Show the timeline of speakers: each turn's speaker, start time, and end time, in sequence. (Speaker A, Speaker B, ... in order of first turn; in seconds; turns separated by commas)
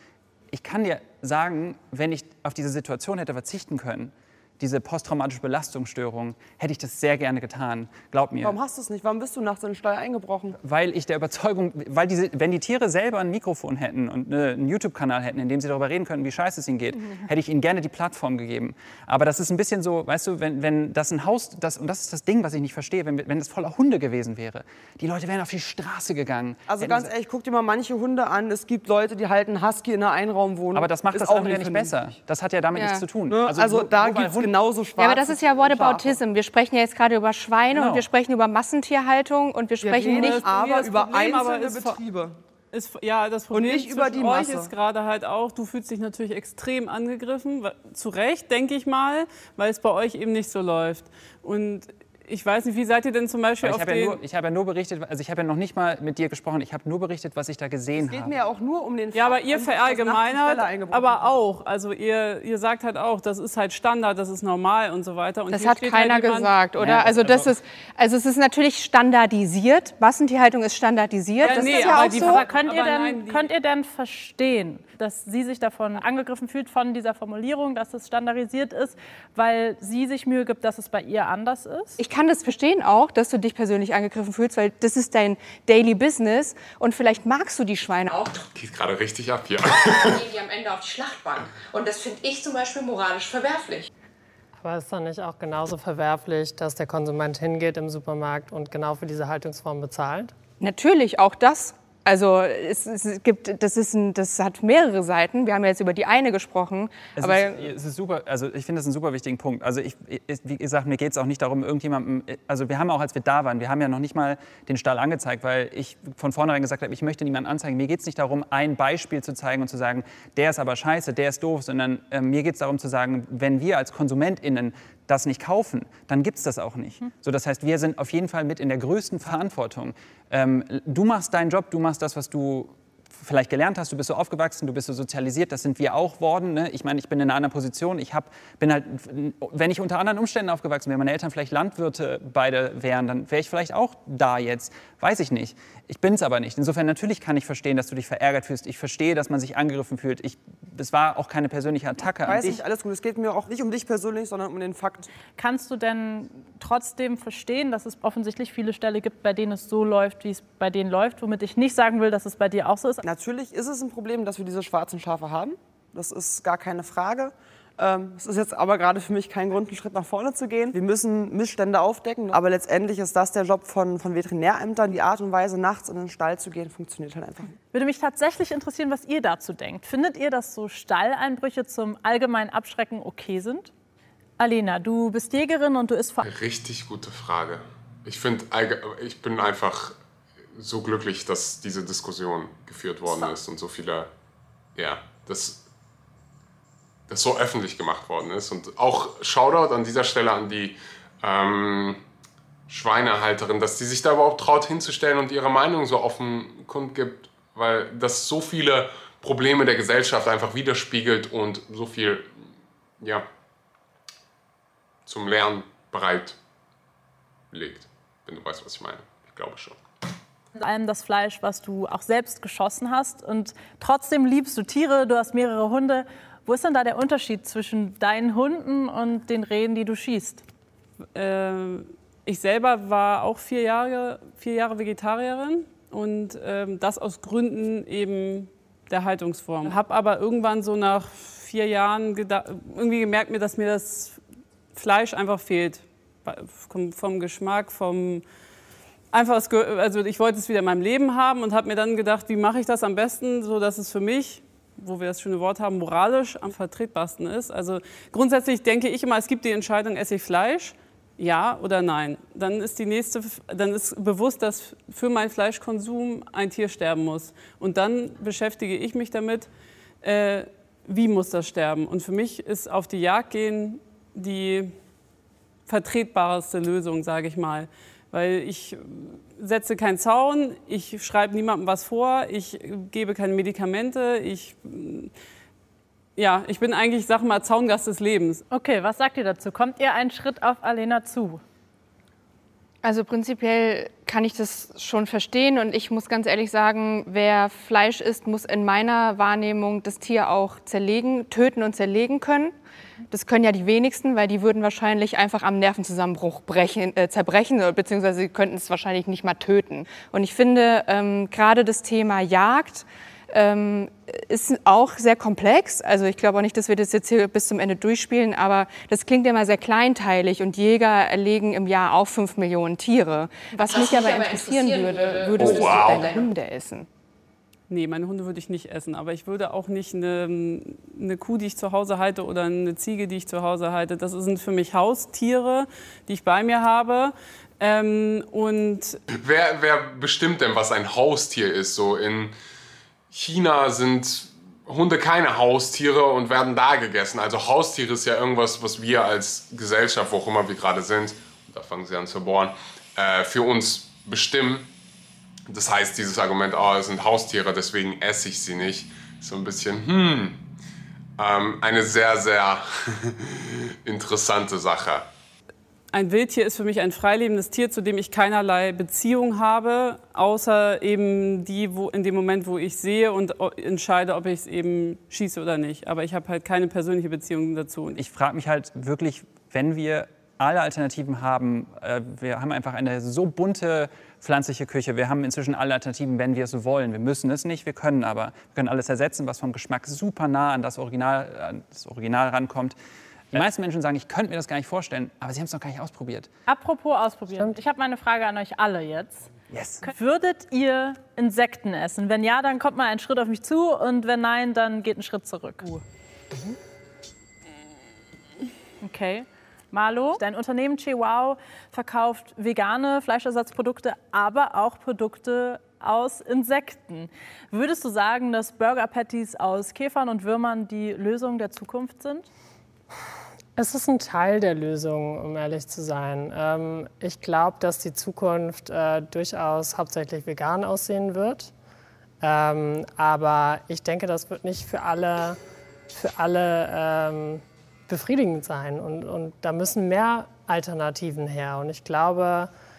Speaker A: 0.5-8.6, Speaker B: 8.4-10.6, Speaker A: 10.6-27.1, Speaker B: 26.7-31.9, Speaker A: 30.7-34.5, Speaker C: 32.7-33.0, Speaker B: 33.3-36.2, Speaker C: 35.0-40.4, Speaker A: 37.7-38.0, Speaker B: 39.8-42.4, Speaker D: 40.1-42.0, Speaker D: 42.7-54.2, Speaker B: 43.5-44.7, Speaker A: 53.6-58.3, Speaker B: 57.9-61.4, Speaker D: 59.1-66.6, Speaker C: 65.5-72.4, Speaker A: 66.8-67.5, Speaker D: 71.4-73.5, Speaker E: 71.5-82.0, Speaker C: 82.0-88.2, Speaker F: 88.1-88.5, Speaker G: 88.5-90.3, Speaker F: 89.9-93.9, Speaker H: 94.6-100.3, Speaker C: 100.6-107.7, Speaker A: 107.2-152.6, Speaker B: 152.2-155.1, Speaker E: 155.4-163.0, Speaker B: 163.0-177.5, Speaker E: 177.7-183.7, Speaker E: 184.4-186.3, Speaker G: 186.2-190.0, Speaker G: 190.5-194.1, Speaker E: 193.1-193.3, Speaker G: 194.7-195.6, Speaker G: 197.1-202.0, Speaker G: 202.7-212.3, Speaker G: 213.0-213.2, Speaker G: 215.1-216.4, Speaker G: 217.5-219.8, Speaker E: 220.6-230.4, Speaker D: 231.1-244.2, Speaker D: 244.7-248.2, Speaker D: 249.1-269.5, Speaker D: 270.0-274.7, Speaker D: 275.7-285.1, Speaker D: 286.1-288.4, Speaker E: 288.5-291.4, Speaker C: 292.8-302.5, Speaker C: 303.1-326.9, Speaker F: 323.6-326.3, Speaker G: 325.4-326.0, Speaker D: 327.7-339.0, Speaker G: 339.1-342.4, Speaker G: 343.1-354.7, Speaker G: 355.5-360.4, Speaker G: 361.2-365.1, Speaker D: 365.9-378.0, Speaker A: 378.0-392.8, Speaker A: 393.3-396.3, Speaker E: 396.5-399.3, Speaker A: 399.5-399.9, Speaker E: 399.8-405.8, Speaker E: 408.8-422.3, Speaker H: 423.6-431.5, Speaker H: 432.2-435.4, Speaker H: 435.9-442.5